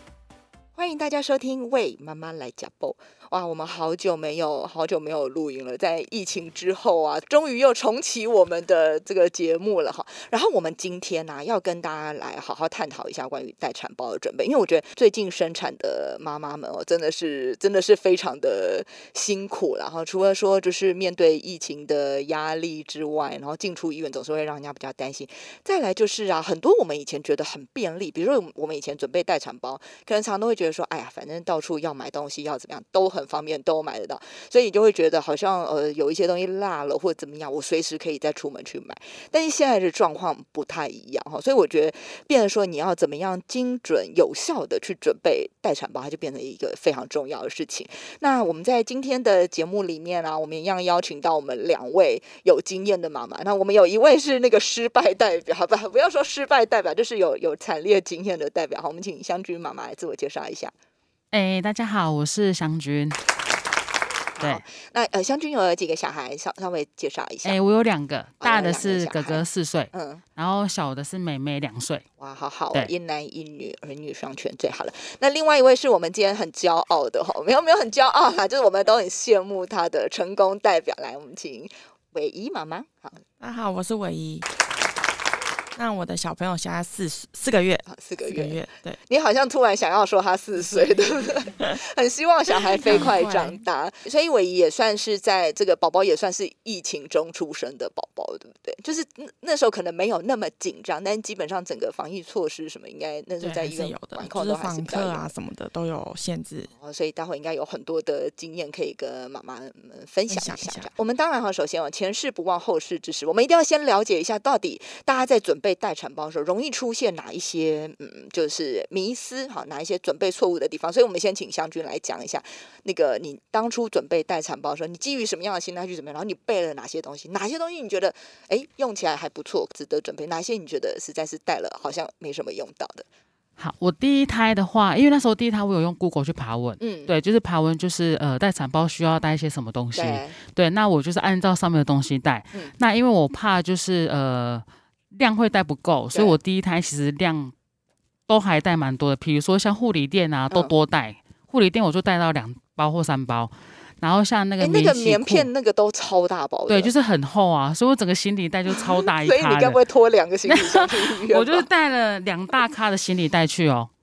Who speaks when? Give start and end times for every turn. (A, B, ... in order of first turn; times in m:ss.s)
0:00.8-1:00.7 A
1:01.3-1:03.2 B
1:04.4-1:07.6 A
1:07.4-1:12.0 B
1:08.4-1:10.2 A
1:12.2-1:23.2 A
1:23.4-1:24.5 C
1:25.8-1:29.0 C
1:27.9-1:45.3 A
1:32.8-1:33.6 C
1:43.4-1:46.7 C
1:46.7-2:13.0 A
1:50.3-1:50.9 C
2:13.6-2:27.5 B
2:16.8-2:17.1 A
2:20.0-2:20.4 A
2:28.3-2:35.5 B
2:34.6-2:36.9 A
2:36.7-2:39.8 B
2:38.7-2:41.7 A
2:40.5-2:43.9 B